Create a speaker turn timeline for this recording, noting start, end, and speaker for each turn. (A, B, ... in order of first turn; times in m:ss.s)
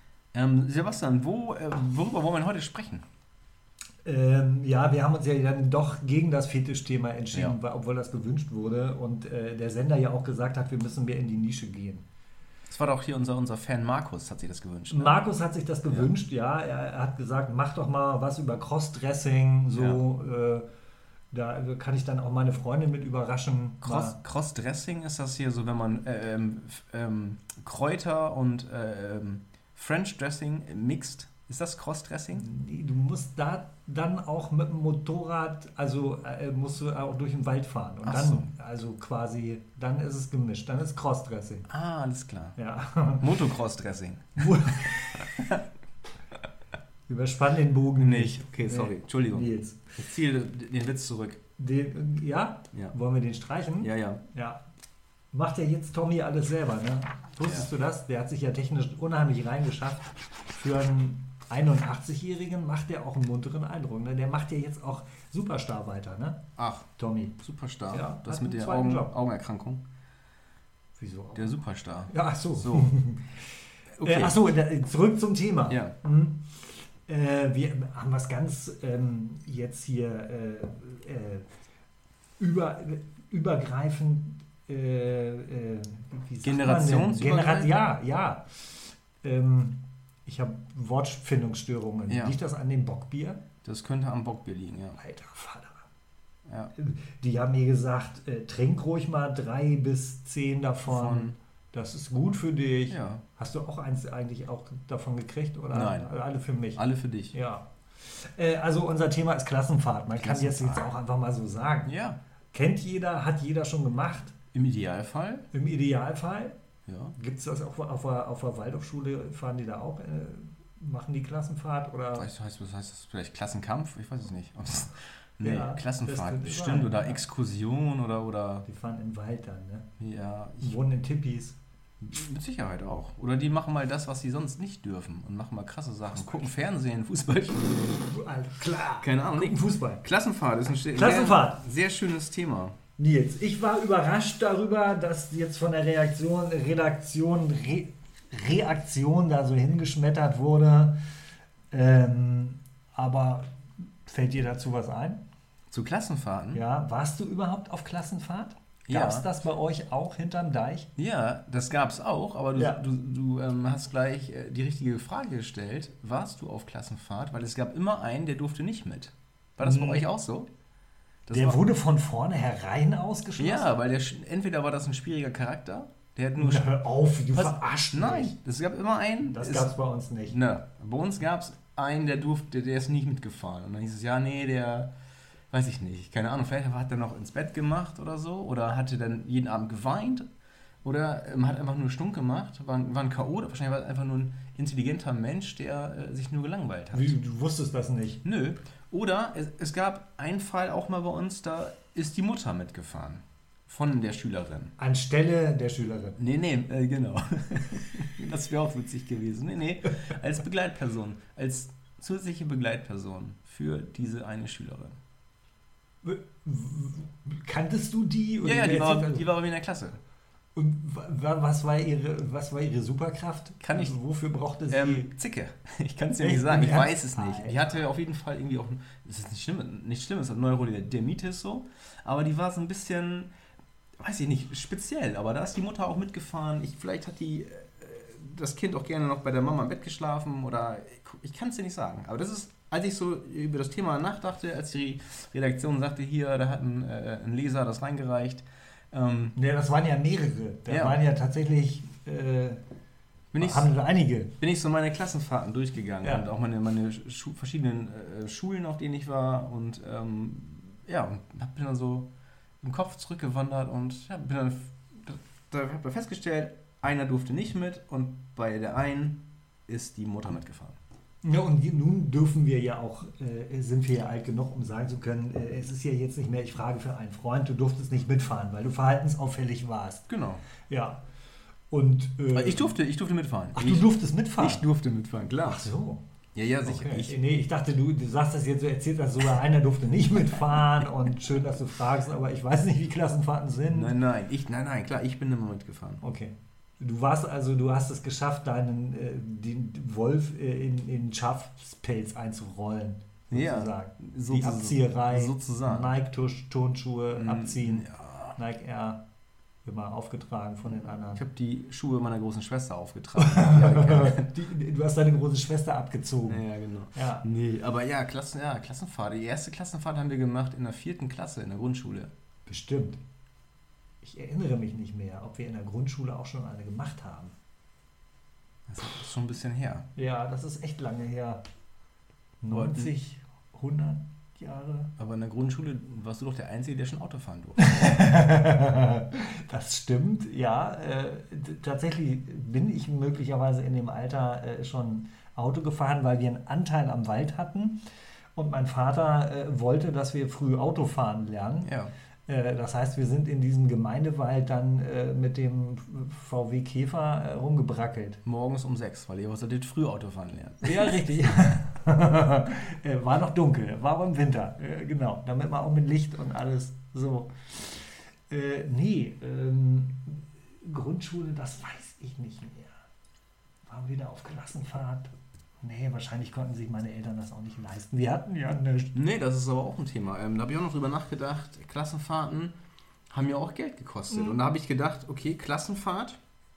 0:00.3-0:03.1 A
0:04.0-0:12.0 B
0:12.7-0:15.2 A
0:14.9-0:20.7 B
0:19.7-0:20.0 A
0:21.3-0:24.2 B
0:23.8-0:32.4 A
0:32.4-0:41.7 B
0:38.0-0:38.5 A
0:41.7-0:42.6 A
0:42.6-0:43.3 B
0:43.2-0:45.6 A
0:44.4-0:45.4 B
0:47.1-0:49.9 B
0:48.0-0:51.4 A
0:51.6-0:54.6 B
0:53.8-0:54.2 A
0:55.3-1:06.4 B
0:57.4-0:57.7 A
1:06.6-1:06.9 A
1:07.0-1:07.4 B
1:07.4-1:09.8 A
1:07.9-1:09.1 B
1:11.0-1:11.5 B
1:11.3-1:12.9 A
1:12.1-1:21.5 B
1:14.0-1:14.4 A
1:15.7-1:15.9 A
1:22.4-1:33.4 B
1:26.4-1:27.7 A
1:32.1-1:32.4 A
1:33.6-1:35.0 A
1:35.0-1:35.9 B
1:36.8-1:51.9 B
1:40.9-1:41.4 A
1:42.9-1:43.2 A
1:45.7-1:46.1 A
1:46.8-1:47.4 A
1:50.2-1:50.9 A
1:51.8-1:52.2 A
1:52.5-1:54.3 B
1:54.5-1:55.5 A
1:55.5-1:56.6 B
1:56.9-1:57.2 A
1:57.2-2:02.3 B
2:02.2-2:08.7 A
2:05.4-2:07.2 B
2:08.7-2:09.9 B
2:10.0-2:10.8 A
2:10.6-2:11.6 B
2:12.0-2:18.1 A
2:16.1-2:16.5 B
2:17.8-2:20.0 B
2:19.0-2:22.8 A
2:20.9-2:21.6 B
2:23.0-2:31.0 B
2:31.7-2:35.2 B
2:35.7-2:36.6 A
2:36.5-2:40.9 B
2:38.9-2:39.3 A
2:41.0-2:50.5 A
2:42.6-2:42.8 B
2:49.6-2:50.0 B
2:51.3-2:51.6 A
2:51.3-2:53.7 B
2:53.4-2:56.7 A
2:56.4-2:58.3 B
2:57.3-2:59.7 A
2:59.3-3:00.4 B
3:00.3-3:04.9 A
3:05.5-3:10.3 A
3:10.8-3:17.2 A
3:16.9-3:18.2 B
3:18.2-3:24.7 A
3:24.8-3:26.2 B
3:26.2-3:35.0 A
3:36.0-3:39.2 B
3:38.4-3:40.0 A
3:40.6-3:45.1 B
3:43.6-3:44.0 A
3:44.7-3:53.3 A
3:46.2-3:47.7 B
3:54.0-4:09.4 A
4:09.4-4:12.6 B
4:10.7-4:11.0 A
4:13.3-4:13.7 A
4:13.4-4:14.3 B
4:14.4-4:22.1 A
4:22.6-4:30.8 A
4:31.2-4:40.1 B
4:40.1-4:40.4 A
4:40.7-4:41.0 B
4:41.7-4:42.8 B
4:42.3-4:45.6 A
4:43.6-4:44.7 B
4:45.5-4:46.0 B
4:46.4-4:47.2 A
4:46.6-4:53.9 B
4:53.7-4:56.0 A
4:56.0-5:09.0 B
5:03.3-5:05.9 A
5:07.2-5:08.4 A
5:09.6-5:11.2 B
5:10.9-5:14.3 A
5:13.2-5:17.3 B
5:16.3-5:22.1 A
5:22.5-5:23.0 B
5:24.0-5:27.3 B
5:28.7-5:29.9 A
5:30.0-5:31.4 B
5:32.4-5:34.9 B
5:32.5-5:32.9 A
5:35.0-5:37.8 A
5:37.6-5:47.8 B
5:48.4-5:51.7 B
5:51.6-5:51.9 A
5:52.3-5:58.2 B
5:58.2-6:01.0 A
6:00.6-6:12.8 B
6:13.7-6:19.0 B
6:18.9-6:22.5 A
6:23.1-6:26.2 A
6:24.1-6:24.4 B